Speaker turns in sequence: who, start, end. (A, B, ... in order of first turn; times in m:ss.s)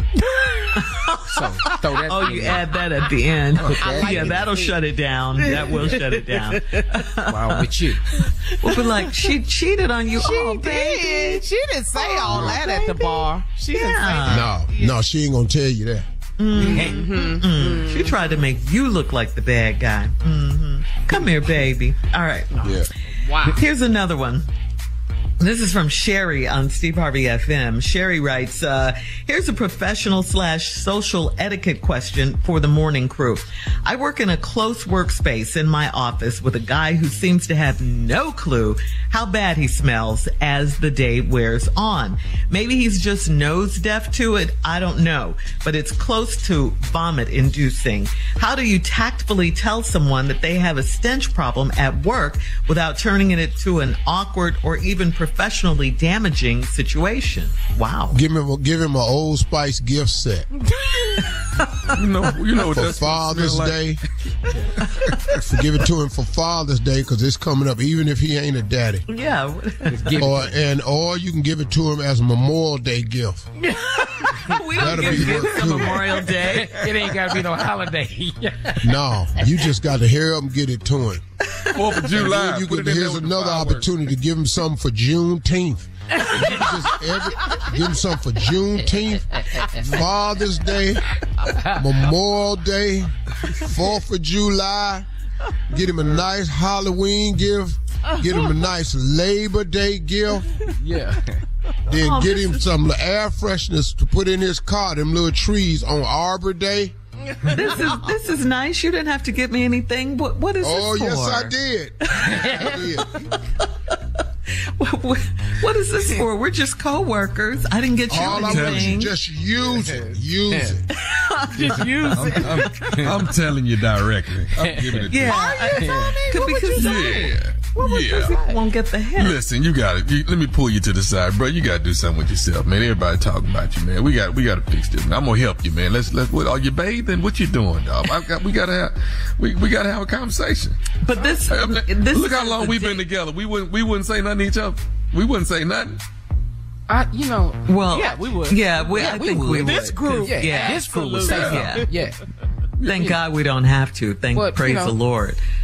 0:00.4-0:00.6 A
0:00.7-0:11.4 B
0:01.3-0:02.7 C
0:03.8-0:04.8 C
0:05.4-0:06.0 A
0:07.2-0:08.0 C
0:10.1-0:15.0 A
0:12.3-0:12.6 D
0:12.3-0:12.8 C
0:13.7-0:14.5 B
0:14.2-0:16.1 D
0:16.4-0:22.6 B
0:16.5-0:18.1 A
0:22.6-0:22.9 E
0:22.6-0:23.6 A
0:23.5-0:24.5 B
0:25.4-0:58.2 B
0:58.1-1:00.5 D
1:00.6-1:01.2 A
1:01.6-1:01.8 B
1:01.9-1:03.9 E
1:02.6-1:04.0 D
1:04.8-1:05.4 E
1:05.4-1:09.1 D
1:09.1-1:10.2 B
1:09.9-1:10.5 C
1:10.2-1:13.5 D
1:13.8-1:16.8 B
1:14.4-1:15.5 C
1:14.8-1:16.1 D
1:16.4-1:19.0 C
1:18.8-1:21.2 D
1:21.7-1:24.0 E
1:22.1-1:31.1 D
1:26.2-1:26.8 C
1:29.5-1:30.1 C
1:31.4-1:31.8 C
1:31.7-1:35.1 D
1:35.7-1:40.5 D
1:40.8-1:41.4 C
1:41.9-1:46.9 D
1:41.9-1:42.6 B
1:47.4-1:51.5 B
1:50.6-1:53.2 D
1:54.6-1:59.2 B
1:58.1-2:00.8 D
1:58.2-1:59.0 E
2:01.0-2:02.8 B
2:01.5-2:02.6 A
2:02.1-2:05.4 E
2:02.9-2:03.2 C
2:04.6-2:05.1 C
2:05.1-2:09.4 B
2:05.3-2:08.6 A
2:05.7-2:06.2 C
2:06.8-2:08.4 E
2:09.2-2:20.8 E
2:21.0-2:23.0 B
2:21.5-2:26.0 E
2:26.9-2:27.6 C
2:27.7-2:31.9 B
2:27.9-2:31.8 A
2:28.8-2:32.2 C
2:31.3-2:31.7 E
2:32.8-2:33.2 E
2:32.8-2:35.4 B
2:34.3-2:35.0 C